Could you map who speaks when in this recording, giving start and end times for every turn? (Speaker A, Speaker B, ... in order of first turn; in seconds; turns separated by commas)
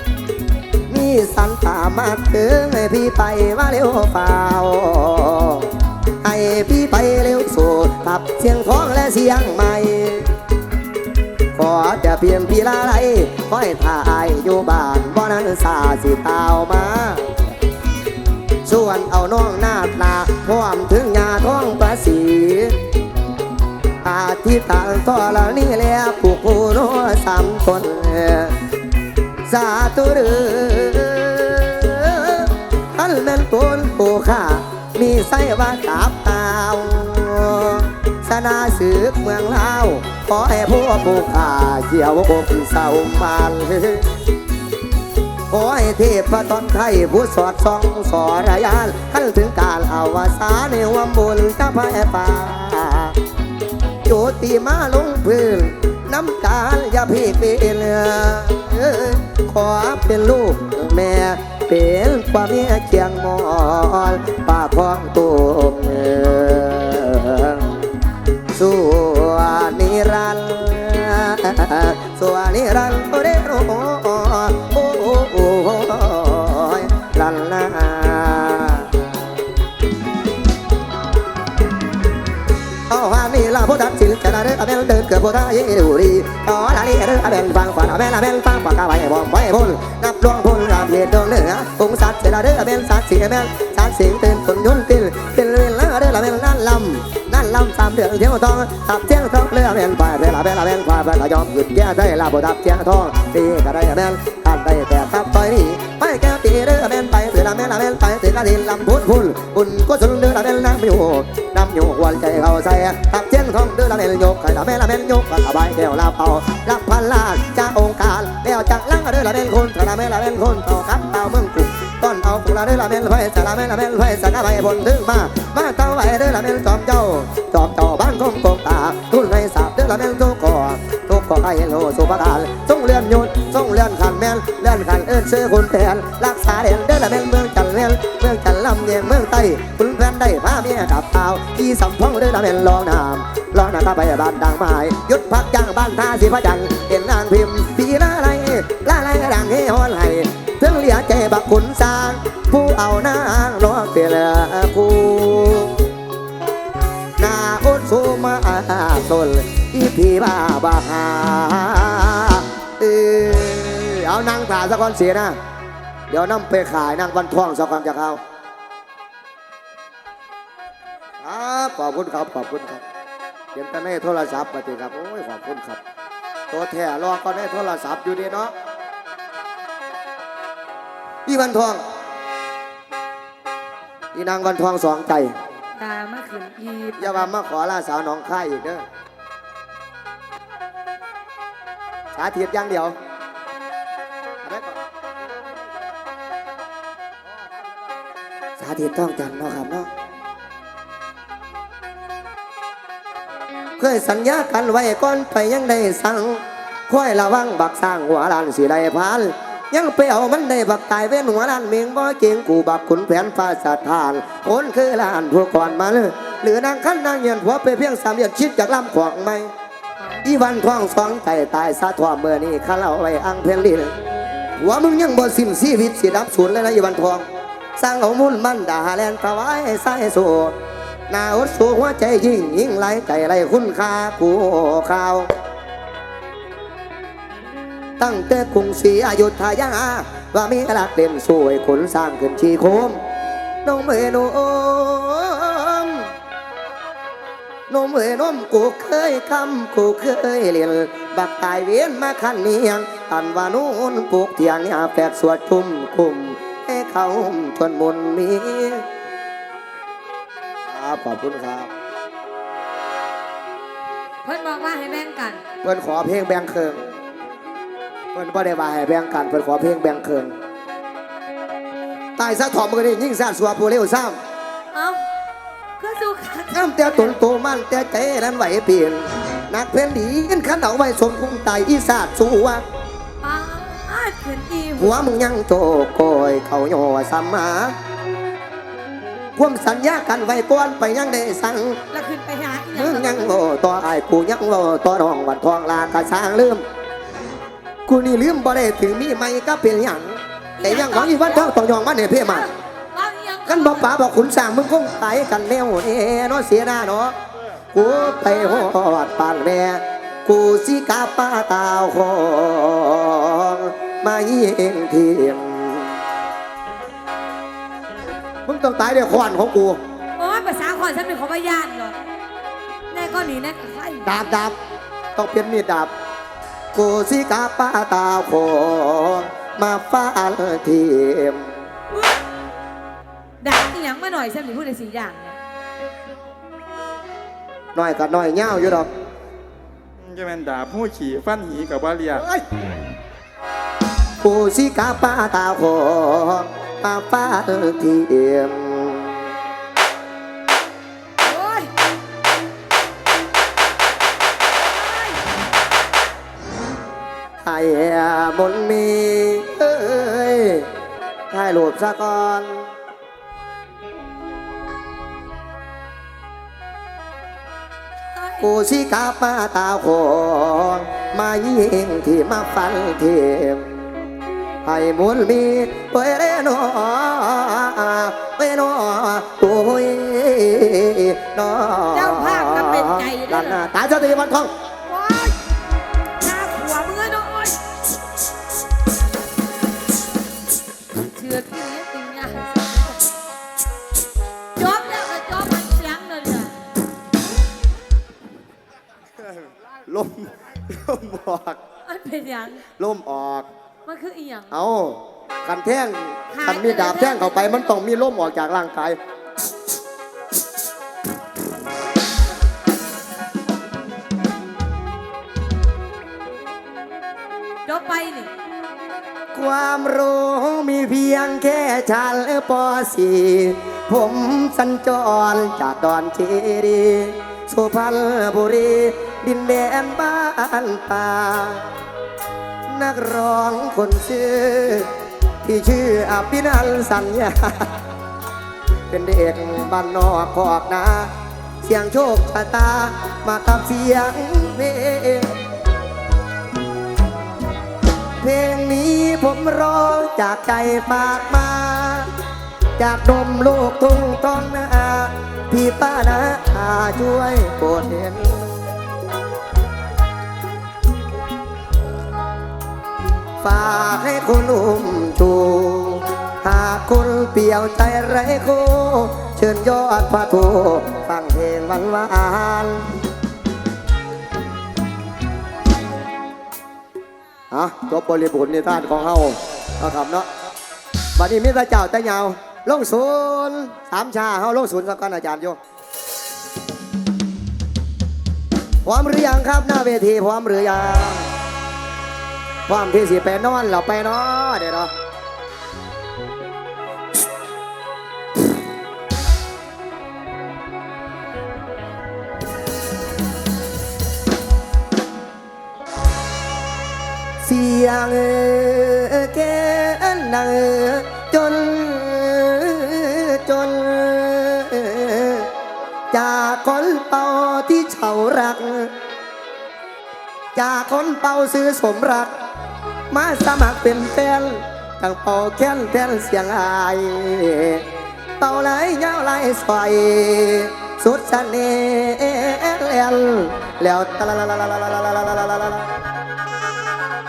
Speaker A: 0.9-10.3, Speaker A: 11.6-17.4, Speaker A: 18.6-22.8, Speaker A: 24.0-28.6, Speaker A: 29.5-44.0, Speaker A: 45.5-53.1, Speaker A: 54.1-67.8, Speaker A: 68.5-79.1, Speaker A: 82.9-155.9, Speaker A: 157.2-165.4, Speaker A: 166.1-168.2, Speaker A: 171.2-172.8, Speaker A: 173.5-175.8, Speaker A: 176.5-178.5, Speaker A: 181.3-181.8, Speaker A: 184.1-185.3, Speaker B: 185.8-187.3, Speaker A: 187.0-188.8, Speaker A: 192.2-192.9, Speaker A: 194.4-194.8, Speaker A: 198.6-199.9, Speaker A: 203.8-219.5, Speaker A: 220.2-223.9, Speaker A: 224.6-227.2, Speaker A: 227.8-230.5, Speaker A: 231.1-235.3, Speaker A: 238.0-243.0, Speaker A: 243.7-246.1, Speaker A: 247.7-258.9, Speaker A: 260.7-261.7, Speaker B: 264.2-265.4, Speaker A: 265.6-266.8, Speaker A: 268.1-270.3, Speaker A: 272.2-274.2, Speaker B: 274.7-275.0, Speaker B: 275.8-277.1, Speaker A: 276.5-282.6, Speaker B: 283.2-285.0, Speaker A: 284.8-287.8, Speaker A: 289.4-291.8, Speaker B: 291.9-293.2, Speaker A: 292.8-296.6, Speaker A: 297.9-302.5, Speaker B: 300.6-301.5, Speaker B: 302.2-303.9, Speaker A: 303.5-307.1, Speaker A: 307.7-315.9, Speaker B: 307.8-308.7, Speaker A: 318.5-319.8, Speaker B: 320.2-322.0, Speaker B: 322.9-324.2, Speaker A: 324.1-324.6, Speaker A: 325.2-325.9, Speaker A: 326.7-331.5, Speaker B: 331.9-332.2, Speaker B: 333.4-335.4, Speaker A: 337.8-338.9, Speaker C: 340.0-342.2, Speaker A: 342.2-342.4, Speaker A: 344.2-349.2, Speaker B: 351.2-351.7, Speaker B: 354.6-355.2, Speaker A: 357.4-360.7, Speaker A: 361.3-362.7, Speaker B: 368.1-368.5, Speaker A: 368.4-373.7, Speaker A: 374.6-384.5, Speaker B: 381.9-383.6, Speaker B: 384.9-385.4, Speaker B: 386.2-387.6, Speaker B: 390.9-393.1, Speaker B: 394.6-396.5, Speaker A: 399.9-401.6, Speaker B: 401.9-402.6, Speaker A: 402.8-403.5, Speaker B: 403.9-404.6, Speaker A: 404.5-409.0, Speaker B: 406.3-407.6, Speaker B: 417.7-418.3, Speaker A: 419.3-431.7, Speaker A: 432.7-434.9, Speaker A: 435.4-437.7, Speaker A: 438.9-441.1, Speaker A: 441.6-445.3, Speaker A: 448.2-452.1, Speaker A: 452.8-458.6, Speaker A: 463.4-472.9, Speaker A: 477.5-480.3, Speaker A: 481.2-485.6, Speaker A: 488.9-491.3, Speaker A: 492.7-494.9, Speaker A: 507.4-515.5, Speaker A: 516.1-518.9, Speaker A: 520.5-522.3, Speaker A: 523.1-527.9, Speaker A: 528.4-535.9